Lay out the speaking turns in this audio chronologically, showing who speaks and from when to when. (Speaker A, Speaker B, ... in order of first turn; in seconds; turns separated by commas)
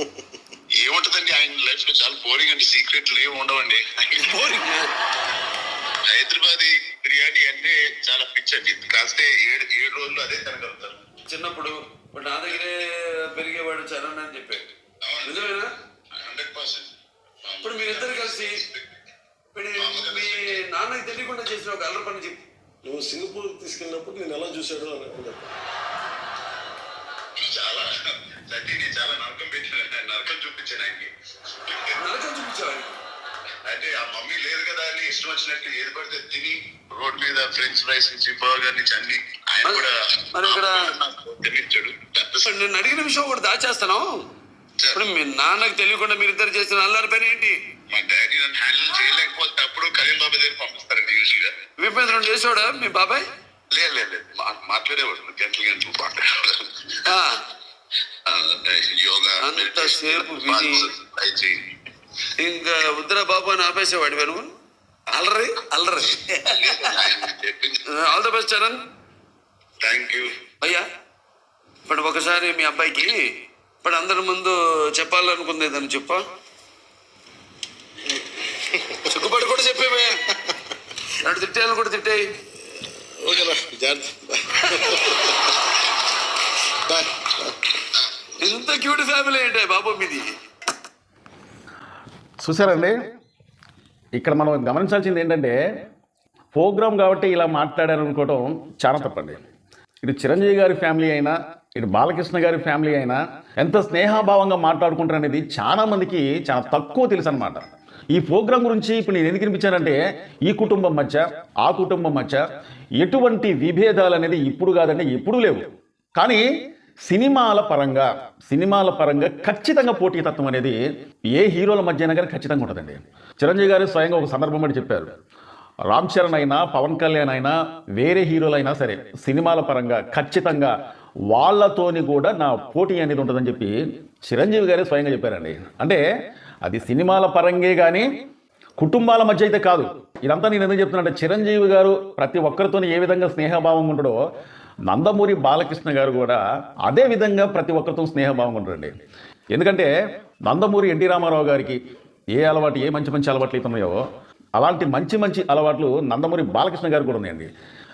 Speaker A: 0.8-4.4, Speaker B: 4.2-4.9, Speaker A: 6.0-11.1, Speaker B: 11.3-15.7, Speaker A: 15.0-15.5, Speaker A: 16.1-19.0, Speaker B: 17.6-18.6, Speaker B: 19.5-22.4, Speaker A: 19.8-20.6, Speaker C: 22.8-25.5, Speaker A: 27.4-32.0, Speaker B: 31.9-33.0, Speaker A: 33.6-42.7, Speaker B: 39.6-40.9, Speaker B: 42.4-44.2, Speaker B: 44.9-47.5, Speaker A: 47.9-51.5, Speaker B: 51.8-53.2, Speaker A: 53.7-57.1, Speaker B: 57.0-57.4, Speaker A: 58.2-61.7, Speaker B: 59.4-60.9, Speaker B: 62.4-64.5, Speaker B: 65.1-67.0, Speaker A: 66.5-67.8, Speaker B: 67.9-68.8, Speaker A: 69.8-70.3, Speaker B: 71.8-76.2, Speaker B: 79.0-80.3, Speaker B: 81.2-82.3, Speaker C: 82.9-85.5, Speaker B: 84.6-85.1, Speaker C: 86.9-87.5, Speaker B: 88.4-90.3, Speaker D: 92.4-93.0, Speaker D: 94.1-95.5, Speaker D: 96.5-99.4, Speaker D: 100.0-112.4, Speaker D: 113.0-115.6, Speaker D: 116.2-116.4, Speaker D: 117.1-120.8, Speaker D: 121.3-125.1, Speaker D: 125.9-130.7, Speaker D: 131.3-136.0, Speaker D: 136.6-138.1, Speaker D: 138.8-144.2, Speaker D: 144.9-148.9, Speaker D: 149.5-149.9, Speaker D: 150.5-151.8, Speaker D: 152.4-154.0, Speaker D: 154.6-157.5